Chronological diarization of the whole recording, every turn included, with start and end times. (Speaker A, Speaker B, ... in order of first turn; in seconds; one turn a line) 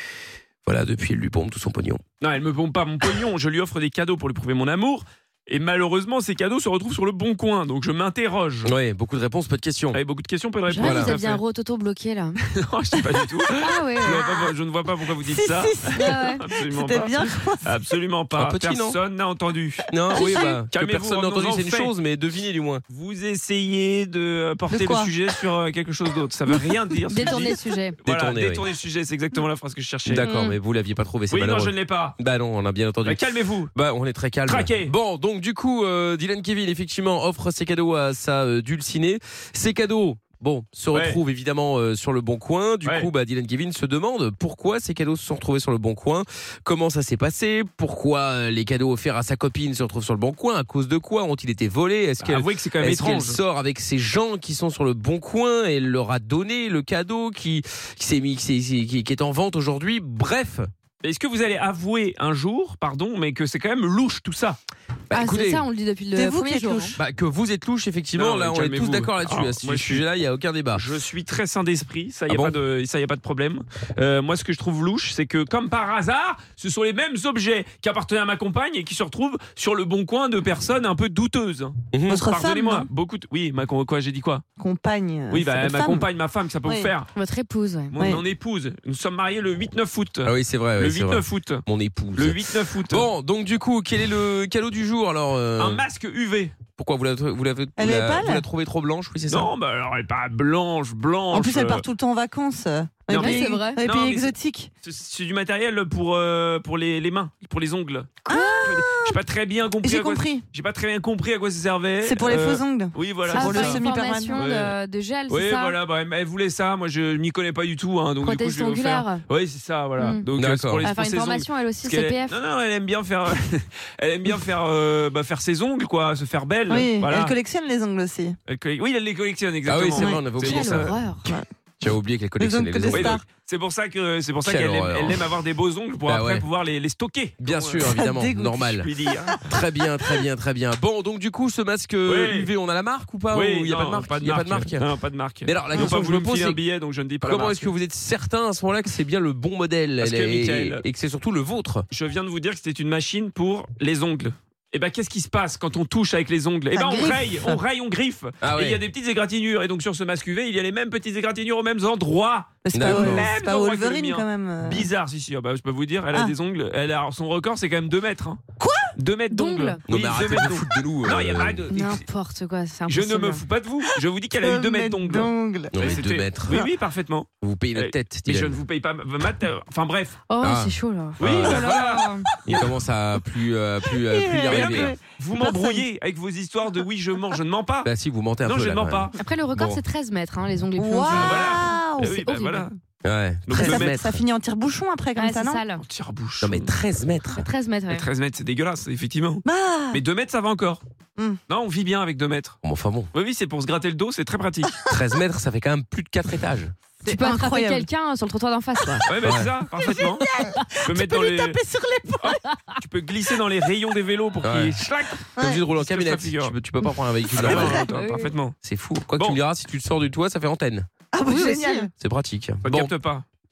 Speaker A: 0.6-2.0
Speaker B: 2.2-8.7
Speaker A: 8.6-10.0
Speaker B: 9.9-11.4
Speaker C: 10.7-12.4
Speaker A: 10.8-11.1
Speaker B: 12.4-21.9
Speaker C: 13.5-14.5
Speaker D: 15.1-17.8
Speaker C: 15.9-16.5
Speaker A: 18.4-19.0
Speaker A: 19.9-22.8
Speaker D: 20.1-20.5
Speaker B: 22.9-30.2
Speaker D: 24.7-25.1
Speaker D: 26.5-26.8
Speaker C: 27.1-28.0
Speaker A: 28.0-28.6
Speaker A: 30.1-33.2
Speaker C: 30.2-30.5
Speaker B: 31.3-32.2
Speaker B: 33.0-33.7
Speaker A: 33.7-60.7
Speaker B: 34.5-34.9
Speaker B: 40.9-41.2
Speaker B: 42.8-43.1
Speaker B: 52.2-53.4
Speaker B: 61.0-64.6
Speaker A: 65.1-65.7
Speaker C: 65.1-66.9
Speaker D: 66.1-67.0
Speaker A: 67.0-70.8
Speaker B: 68.2-70.0
Speaker B: 70.7-84.4
Speaker A: 72.3-72.6
Speaker A: 81.9-82.2
Speaker D: 82.1-82.9
Speaker D: 84.6-86.1
Speaker B: 85.3-87.1
Speaker D: 86.6-86.9
Speaker C: 87.1-88.0
Speaker B: 87.9-91.6
Speaker D: 88.0-88.2
Speaker A: 90.2-95.8
Speaker B: 92.2-93.1
Speaker B: 95.6-96.5
Speaker A: 96.8-99.5
Speaker D: 97.8-98.5
Speaker B: 99.3-101.8
Speaker D: 101.3-104.7
Speaker B: 103.1-114.8
Speaker C: 103.1-103.8
Speaker D: 108.3-109.2
Speaker D: 109.8-110.4
Speaker D: 112.0-114.4
Speaker C: 113.2-115.8
Speaker B: 115.3-127.3
Speaker C: 118.2-119.2
Speaker C: 120.0-120.3
Speaker A: 120.4-120.9
Speaker C: 120.8-122.4
Speaker D: 126.7-128.4
Speaker B: 128.5-130.9
Speaker A: 129.7-130.9
Speaker D: 130.0-130.2
Speaker C: 130.4-131.3
Speaker A: 131.8-133.2
Speaker D: 132.4-133.2
Speaker B: 132.9-137.9
Speaker A: 134.4-135.2
Speaker A: 136.1-136.4
Speaker A: 137.4-138.9
Speaker D: 137.8-140.2
Speaker B: 138.8-139.4
Speaker A: 139.4-144.8
Speaker B: 142.1-142.5
Speaker B: 143.3-147.7
Speaker A: 145.4-146.6
Speaker A: 147.2-151.8
Speaker B: 150.0-150.8
Speaker B: 151.9-168.4
Speaker D: 156.7-157.6
Speaker A: 158.4-158.8
Speaker D: 162.6-164.9
Speaker A: 162.7-163.3
Speaker D: 168.6-168.9
Speaker B: 168.9-172.0
Speaker C: 169.3-169.8
Speaker A: 169.9-171.7
Speaker C: 171.7-173.4
Speaker B: 172.9-180.2
Speaker D: 173.9-175.9
Speaker A: 175.7-176.6
Speaker A: 177.4-178.6
Speaker C: 180.3-182.3
Speaker A: 180.4-181.7
Speaker B: 181.2-182.8
Speaker D: 181.4-182.3
Speaker A: 182.4-184.9
Speaker D: 183.8-185.8
Speaker B: 184.4-187.9
Speaker A: 187.8-189.8
Speaker B: 188.4-189.1
Speaker C: 189.2-192.7
Speaker D: 190.7-192.2
Speaker B: 191.1-192.7
Speaker A: 193.0-194.2
Speaker B: 193.5-194.0
Speaker D: 193.5-195.6
Speaker C: 195.2-195.8
Speaker B: 195.8-196.7
Speaker A: 196.4-197.4
Speaker C: 197.2-198.1
Speaker B: 197.9-200.8
Speaker D: 199.4-200.0
Speaker B: 201.5-202.6
Speaker A: 202.6-203.1
Speaker B: 203.1-204.8
Speaker A: 204.8-206.7
Speaker D: 207.0-207.9
Speaker C: 207.0-209.1
Speaker D: 208.8-209.1
Speaker B: 209.1-210.2
Speaker A: 209.2-209.5
Speaker D: 209.7-212.4
Speaker B: 210.8-211.6
Speaker B: 212.2-216.5
Speaker A: 214.4-214.8
Speaker D: 215.3-215.6
Speaker A: 215.4-217.9
Speaker B: 217.3-218.6
Speaker C: 217.4-218.3
Speaker A: 218.6-220.9
Speaker D: 221.1-221.9
Speaker C: 221.3-221.8
Speaker A: 221.9-222.9
Speaker B: 222.6-223.2